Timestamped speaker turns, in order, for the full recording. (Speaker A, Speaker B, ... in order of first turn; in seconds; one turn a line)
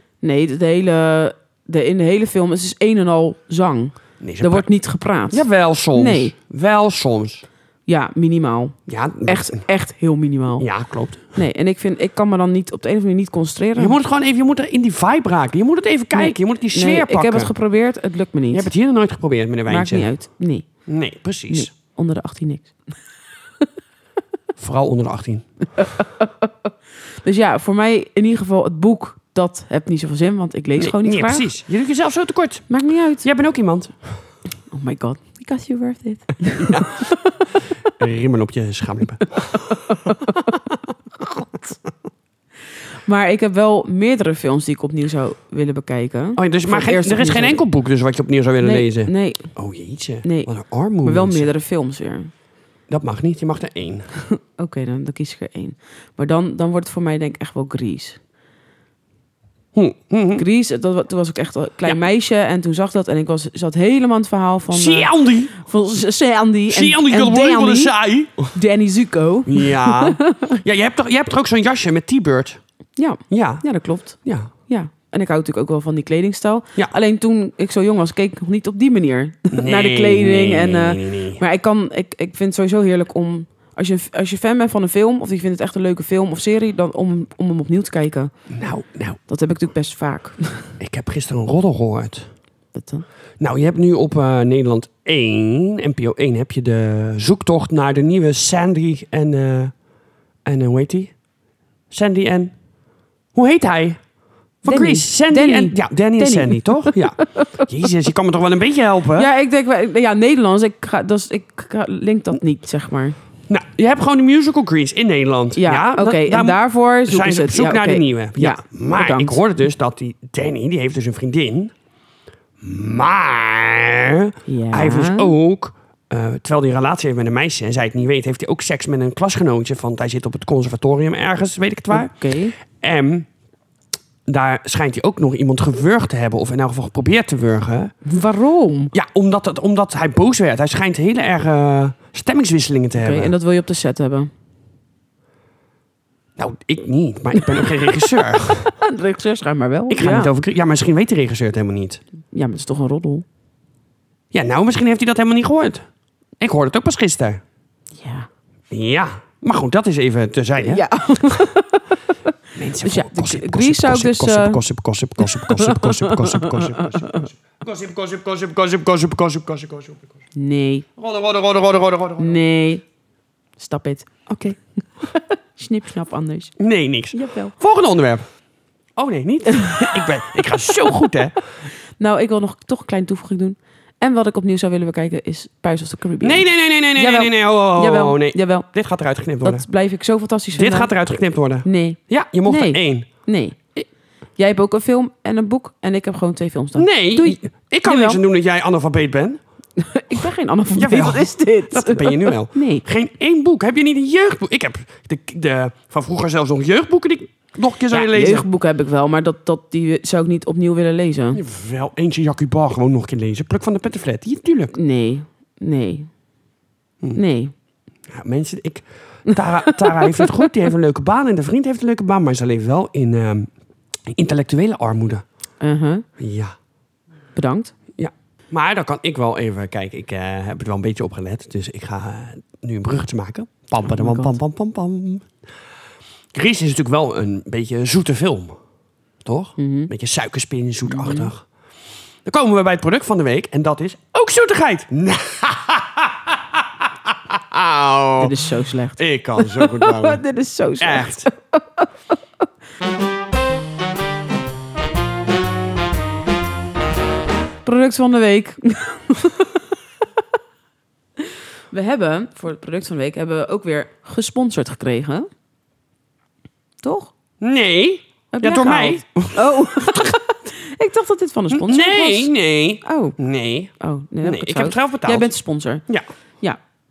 Speaker A: 0.2-6.3
Speaker B: 4.2-4.7
Speaker B: 5.3-7.5
Speaker A: 7.9-10.7
Speaker B: 8.9-9.7
Speaker B: 10.6-11.3
Speaker A: 11.3-13.9
Speaker B: 13.8-17.5
Speaker A: 16.1-18.7
Speaker B: 18.5-20.1
Speaker A: 19.7-20.7
Speaker B: 20.9-21.7
Speaker A: 21.5-22.7
Speaker B: 24.6-25.5
Speaker A: 25.8-26.7
Speaker A: 27.2-31.5
Speaker B: 30.8-32.7
Speaker A: 32.7-33.3
Speaker B: 33.2-33.9
Speaker A: 34.7-37.4
Speaker B: 36.6-37.0
Speaker B: 38.0-40.4
Speaker A: 39.9-40.2
Speaker A: 43.0-47.6
Speaker B: 46.4-51.5
Speaker A: 48.6-49.5
Speaker A: 50.2-50.5
Speaker A: 51.0-52.3
Speaker B: 52.9-54.1
Speaker A: 54.2-58.2
Speaker B: 59.7-60.4
Speaker A: 60.4-67.9
Speaker B: 64.7-65.5
Speaker B: 66.7-68.5
Speaker A: 68.5-70.6
Speaker B: 69.5-72.6
Speaker A: 73.0-88.3
Speaker B: 73.3-73.6
Speaker B: 74.2-74.5
Speaker B: 79.5-81.4
Speaker B: 88.5-89.2
Speaker A: 89.3-90.7
Speaker B: 90.8-92.3
Speaker A: 92.7-93.0
Speaker B: 93.4-99.7
Speaker B: 100.4-101.1
Speaker B: 101.9-102.5
Speaker B: 103.3-104.0
Speaker B: 104.6-109.3
Speaker A: 104.7-107.5
Speaker A: 109.1-113.2
Speaker B: 113.5-121.7
Speaker A: 115.5-119.4
Speaker B: 122.6-133.3
Speaker A: 124.5-125.3
Speaker A: 131.9-132.5
Speaker B: 134.3-137.9
Speaker A: 138.0-138.9
Speaker B: 138.9-143.3
Speaker A: 143.0-144.3
Speaker B: 146.4-148.8
Speaker A: 147.4-148.2
Speaker A: 148.8-150.3
Speaker B: 149.9-152.0
Speaker A: 152.3-153.2
Speaker B: 154.3-155.8
Speaker B: 156.4-157.4
Speaker A: 157.9-158.3
Speaker B: 158.7-160.8
Speaker A: 160.6-161.8
Speaker B: 162.5-170.1
Speaker A: 162.8-164.6
Speaker A: 165.2-167.3
Speaker A: 170.3-170.8
Speaker B: 171.0-172.4
Speaker A: 172.2-172.8
Speaker A: 173.6-174.1
Speaker B: 174.3-174.6
Speaker A: 175.0-176.5
Speaker B: 176.6-178.2
Speaker A: 177.1-177.5
Speaker B: 178.9-181.3
Speaker A: 179.6-180.0
Speaker A: 182.0-188.7
Speaker B: 186.2-189.6
Speaker A: 189.4-190.9
Speaker B: 190.5-193.1
Speaker A: 191.6-193.6
Speaker A: 194.4-198.2
Speaker B: 196.8-199.4
Speaker A: 199.8-202.8
Speaker B: 200.7-208.4
Speaker A: 207.9-211.4
Speaker B: 211.3-214.7
Speaker A: 214.7-216.1
Speaker A: 217.1-217.5
Speaker B: 218.1-223.5
Speaker A: 219.6-220.3
Speaker B: 224.1-225.2
Speaker A: 225.6-226.0
Speaker B: 226.2-226.5
Speaker A: 227.3-227.7
Speaker B: 228.0-235.3
Speaker A: 233.8-234.3
Speaker B: 236.3-238.6
Speaker B: 239.2-241.5
Speaker A: 239.6-239.9
Speaker A: 240.9-241.3
Speaker B: 242.2-248.3
Speaker A: 248.2-252.5
Speaker B: 249.0-250.2
Speaker B: 250.8-251.3
Speaker A: 257.6-259.6
Speaker A: 261.2-265.3
Speaker A: 266.8-267.1
Speaker B: 267.4-270.1
Speaker A: 268.3-272.3
Speaker B: 271.5-273.7
Speaker A: 272.8-273.1
Speaker A: 273.8-275.8
Speaker B: 274.2-275.3